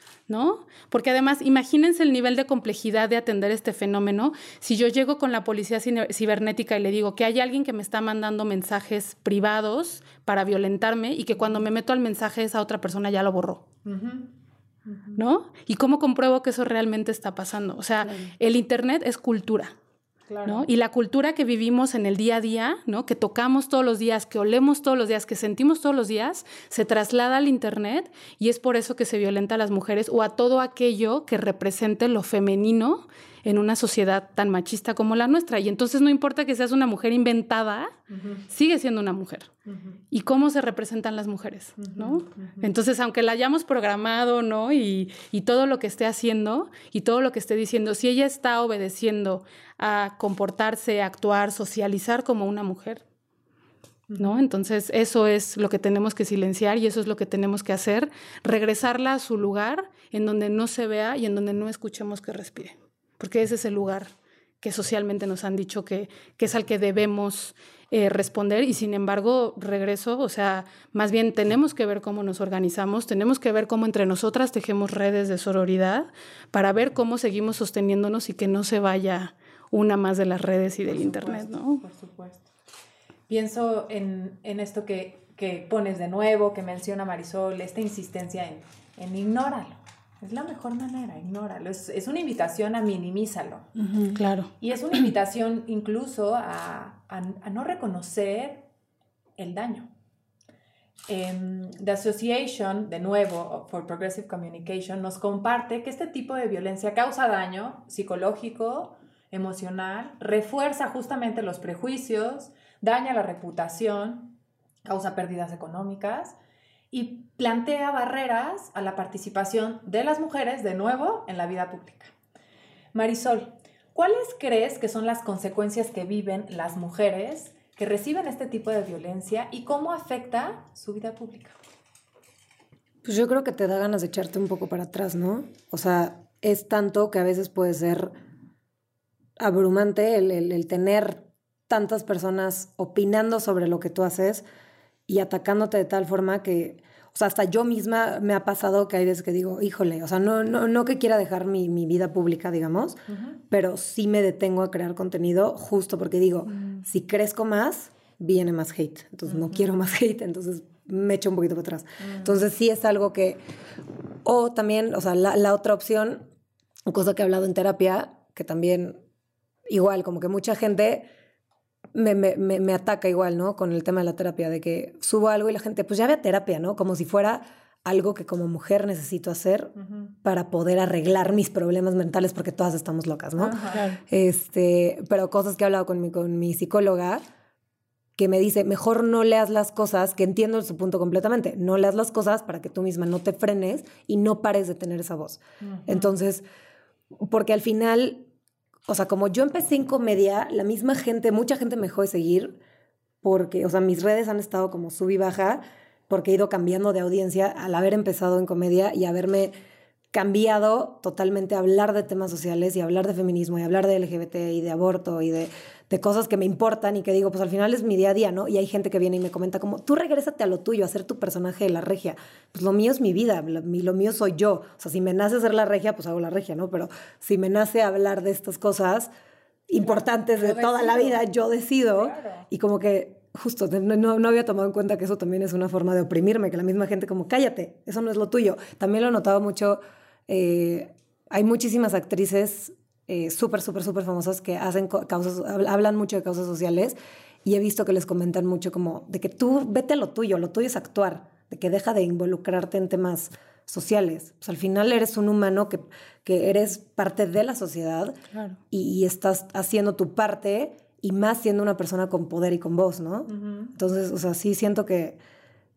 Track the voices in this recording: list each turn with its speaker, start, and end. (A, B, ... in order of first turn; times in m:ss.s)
0:00.3-0:13.6 A
0:13.8-0:14.3 B
0:14.8-0:15.2 B
0:15.2-0:19.7 A
0:18.0-0:18.3 C
0:20.3-0:20.7 B
0:20.4-0:37.9 A
0:38.1-0:38.4 B
0:38.5-0:39.5 A
0:39.6-0:40.0 B
0:40.1-0:53.0 A
0:41.8-0:42.7 B
0:54.1-0:54.4 B
0:54.2-1:21.8 A
1:20.8-1:22.5 B
1:23.3-1:33.7 B
1:33.8-1:34.1 C
1:34.1-1:34.5 A
1:34.6-1:38.6 B
1:39.4-1:39.9 B
1:41.1-1:56.4 B
1:56.9-2:02.1 B
2:02.9-2:11.6 B
2:13.0-2:18.1 C
2:19.4-2:24.4 C
2:25.1-2:43.4 C
2:33.1-2:33.4 B
2:36.5-2:36.8 B
2:39.3-2:39.6 B
2:42.0-2:42.3 B
2:44.2-2:46.3 C
2:46.9-2:49.0 C
2:49.7-2:51.1 C
2:51.9-3:07.2 C
2:59.8-3:00.1 B
3:03.4-3:03.8 B
3:03.7-3:04.0 A
3:08.2-3:16.4 C
3:15.6-3:16.1 B
3:17.2-3:18.3 C
3:18.9-3:22.6 C
3:23.2-3:29.5 C
3:30.1-3:49.1 C
3:49.7-4:18.2 C
3:49.8-3:51.2 B
3:51.8-3:52.5 B
4:18.3-4:18.6 A
4:18.7-4:25.2 C
4:23.3-4:23.7 B